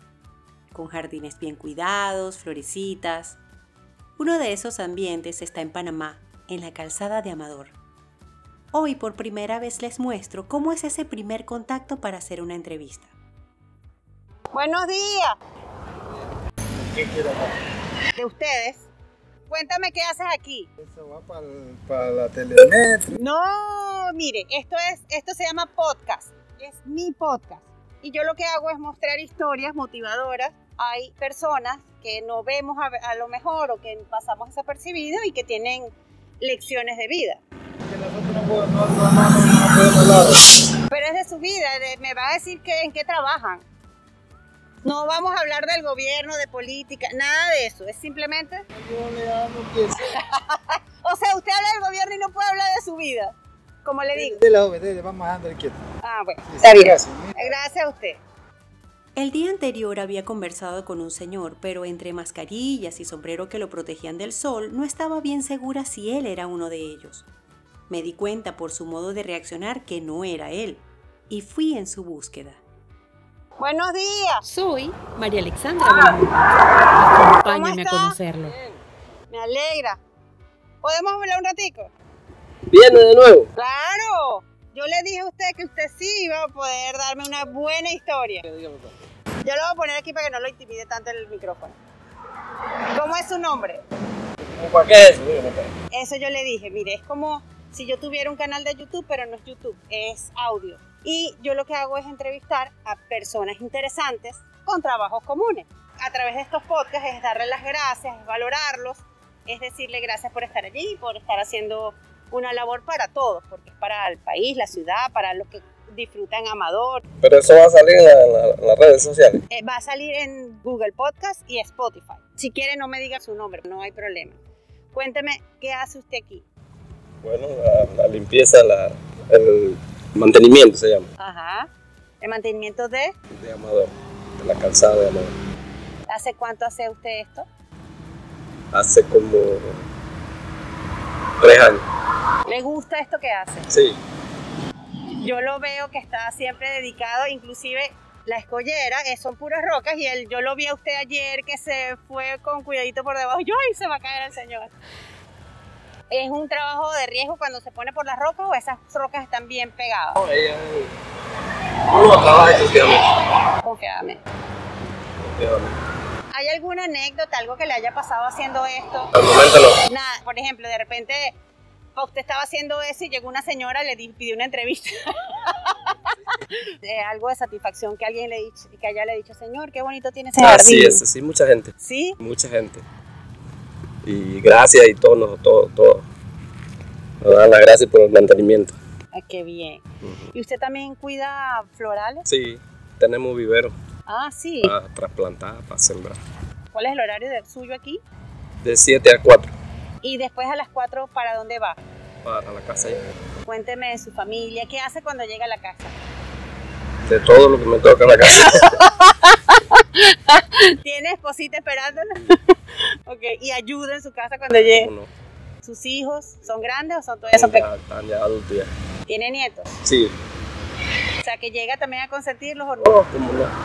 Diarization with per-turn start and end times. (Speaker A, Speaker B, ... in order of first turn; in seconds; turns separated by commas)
Speaker A: 0.7-3.4, Speaker A: 4.2-7.7, Speaker A: 8.7-13.1, Speaker B: 14.5-15.4, Speaker C: 16.7-17.5, Speaker B: 18.1-18.9, Speaker B: 19.5-20.7, Speaker C: 20.8-23.1, Speaker B: 23.1-37.4, Speaker C: 37.9-40.4, Speaker B: 40.9-43.6, Speaker B: 44.8-48.6, Speaker C: 48.7-49.9, Speaker B: 50.0-54.4, Speaker C: 54.2-55.8, Speaker B: 56.0-58.2, Speaker C: 56.6-57.3, Speaker A: 59.1-67.3, Speaker A: 67.9-72.6, Speaker B: 73.6-74.4, Speaker D: 74.4-76.3, Speaker D: 76.9-78.6, Speaker B: 77.4-78.2, Speaker B: 79.3-80.0, Speaker B: 80.8-81.9, Speaker E: 82.7-83.5, Speaker B: 83.5-88.5, Speaker B: 89.4-91.8, Speaker B: 92.9-93.8, Speaker E: 94.4-95.7, Speaker B: 95.9-117.0, Speaker E: 117.2-119.4, Speaker B: 119.5-124.4, Speaker B: 124.9-126.4, Speaker E: 127.2-131.1, Speaker B: 131.2-131.7, Speaker B: 132.2-133.1, Speaker E: 133.3-135.3, Speaker B: 136.1-137.5, Speaker E: 138.7-139.8, Speaker E: 141.4-141.8, Speaker B: 142.4-143.7, Speaker E: 143.7-144.0, Speaker B: 145.2-154.7, Speaker B: 156.1-160.2, Speaker E: 160.2-160.9, Speaker E: 161.9-163.0, Speaker B: 163.6-164.2, Speaker E: 165.2-165.8, Speaker B: 166.3-169.1, Speaker E: 169.1-169.8, Speaker B: 169.9-171.4, Speaker B: 171.9-181.0, Speaker E: 180.4-182.8, Speaker B: 181.8-182.2, Speaker E: 184.0-186.1, Speaker E: 187.2-188.8, Speaker B: 189.1-192.2, Speaker E: 190.0-190.3, Speaker E: 192.2-193.8, Speaker B: 194.1-194.7, Speaker E: 194.6-196.2, Speaker B: 196.7-198.0, Speaker E: 198.6-199.5, Speaker B: 200.0-201.8, Speaker E: 202.2-203.0, Speaker B: 203.4-205.9, Speaker E: 207.1-208.8, Speaker B: 208.5-212.5, Speaker B: 213.0-214.9, Speaker E: 214.5-215.1, Speaker B: 215.6-217.7, Speaker E: 217.3-218.7, Speaker B: 219.1-219.7, Speaker E: 219.8-220.2, Speaker B: 221.2-223.0, Speaker E: 222.8-223.5